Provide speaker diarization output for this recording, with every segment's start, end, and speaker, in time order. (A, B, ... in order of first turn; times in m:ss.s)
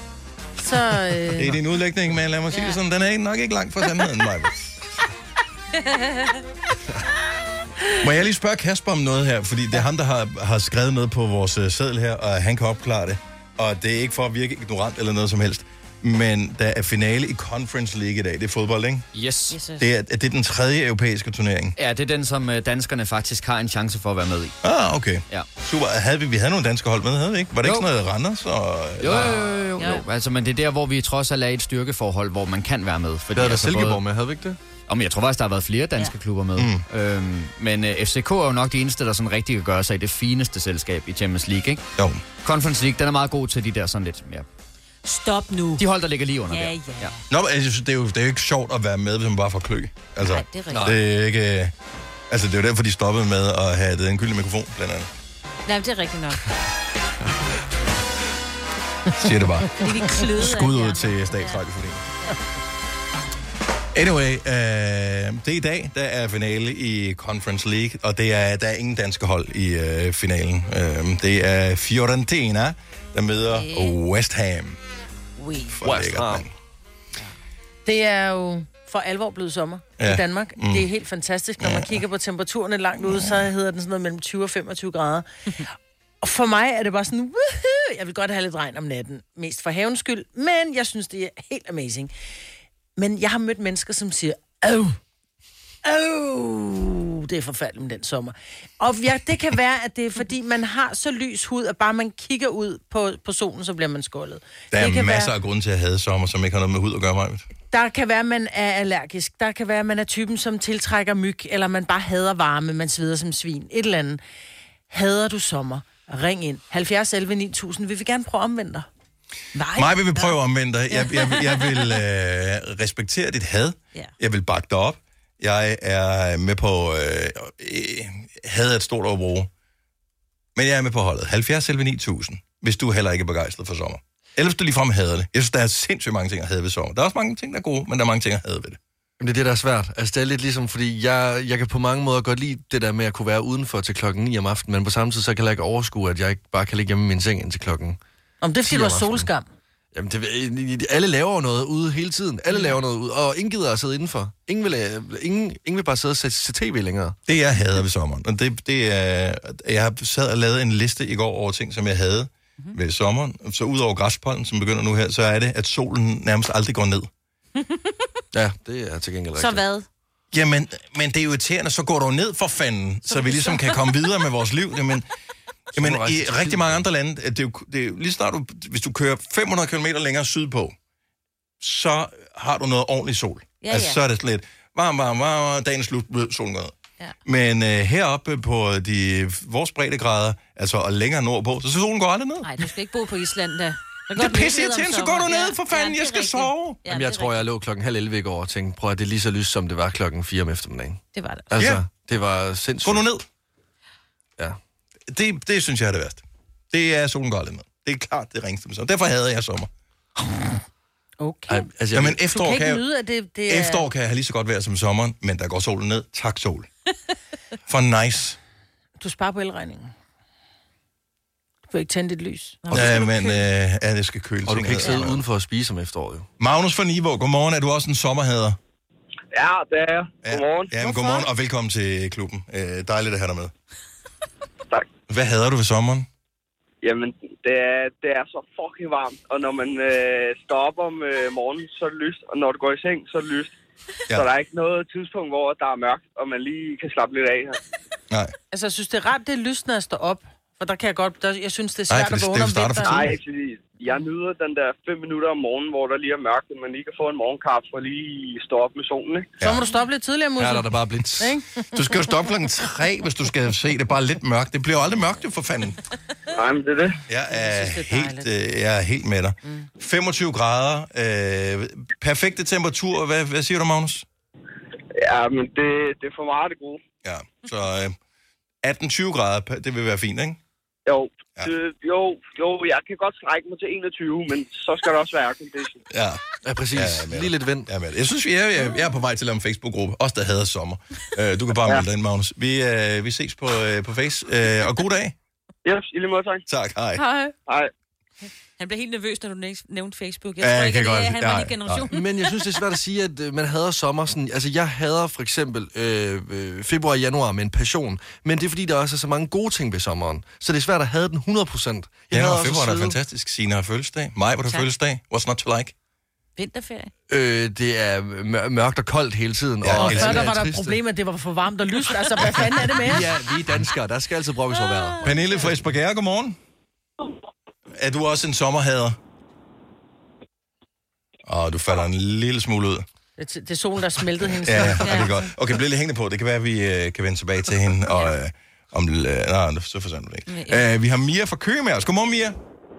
0:00.6-0:01.6 A
0:01.3-0:04.9 B
0:02.5-0:02.8 C
0:05.9-0:06.3 C
0:08.0-0:19.1 B
0:19.1-0:19.6 D
0:19.5-0:19.8 C
0:19.8-0:21.7 B
0:21.8-0:24.5 D
0:24.6-0:29.4 B
0:27.6-0:27.9 D
0:29.0-0:34.0 D
0:33.3-0:34.6 E
0:34.9-0:41.8 D
0:36.6-0:36.8 B
0:42.0-0:42.2 B
0:42.4-0:44.4 D
0:45.0-0:45.8 C
0:45.8-0:47.1 D
0:46.5-0:47.2 C
0:47.3-0:51.7 B
0:50.2-0:50.9 C
0:50.7-0:51.0 E
0:52.3-0:55.1 B
0:55.6-0:56.4 C
0:59.2-1:02.0 B
0:59.8-1:01.6 C
1:03.9-1:14.8 B
1:13.5-1:14.0 C
1:15.6-1:16.5 B
1:15.8-1:16.4 E
1:17.8-1:25.3 A
1:20.0-1:20.8 B
1:21.6-1:22.0 B
1:23.0-1:23.4 B
1:26.2-1:32.1 A
1:33.0-1:35.0 A
1:35.8-1:45.3 A
1:44.7-1:47.4 B
1:47.7-1:54.2 A
1:54.9-1:58.9 A
1:59.6-1:59.9 A
1:59.7-2:09.5 B
2:01.1-2:01.5 C
2:10.6-2:18.8 B
2:19.2-2:28.0 E
2:28.4-2:29.4 A
2:28.6-2:29.3 E
2:29.9-2:37.2 E
2:37.3-2:47.1 B
2:48.3-2:49.6 E
2:49.4-2:49.8 C
2:50.3-2:55.1 B
2:53.1-2:53.9 C
2:55.7-3:00.7 B
2:55.8-2:56.8 E
3:01.6-3:06.7 B
3:03.6-3:04.0 C
3:07.2-3:12.5 B
3:12.4-3:17.4 C
3:14.1-3:16.8 B
3:16.9-3:23.0 E
3:21.1-3:21.5 C
3:21.6-3:21.8 B
3:22.8-3:23.2 B
3:25.1-3:29.7 B
3:31.2-3:31.7 A
3:31.5-3:32.2 E
3:31.9-3:32.8 B
3:32.2-3:33.9 A
3:33.5-3:36.7 B
3:37.7-3:38.4 B
3:39.0-3:39.9 A
3:41.7-3:42.7 A
3:42.6-3:43.3 C
3:42.7-3:45.2 B
3:44.4-3:46.3 E
3:46.4-3:48.6 B
3:49.3-3:50.7 F
3:50.2-3:53.5 B
3:55.1-3:56.1 B
3:56.8-4:03.5 F
4:04.1-4:07.6 F
4:08.5-4:13.1 A
4:11.9-4:13.1 B
4:12.8-4:19.4 F
4:19.4-4:19.6 B
4:19.4-4:21.6 A
4:20.4-4:21.4 E
4:21.7-4:25.8 B
4:26.3-4:27.0 F
4:27.1-4:34.0 B
4:27.3-4:28.3 A
4:29.4-4:29.7 A
4:35.0-4:36.8 F
4:37.0-4:38.0 B
4:38.6-4:40.4 B
4:40.8-4:45.8 F
4:45.9-4:55.1 B
4:46.4-4:47.7 E
4:55.6-4:56.4 F
4:56.5-4:57.0 B
4:57.0-4:57.3 C
4:58.6-5:02.5 C
5:00.4-5:01.9 B
5:01.9-5:13.0 E
5:12.1-5:15.7 B
5:16.4-5:16.9 C
5:17.1-5:20.8 E
5:19.6-5:20.3 B
5:19.7-5:23.1 A
5:22.8-5:25.2 E
5:24.6-5:24.8 C
5:25.0-5:26.4 B
5:27.7-5:29.0 B
5:31.2-5:32.8 B
5:33.2-5:35.2 A
5:34.4-5:42.4 B
5:34.8-5:35.1 C
5:40.3-5:40.6 C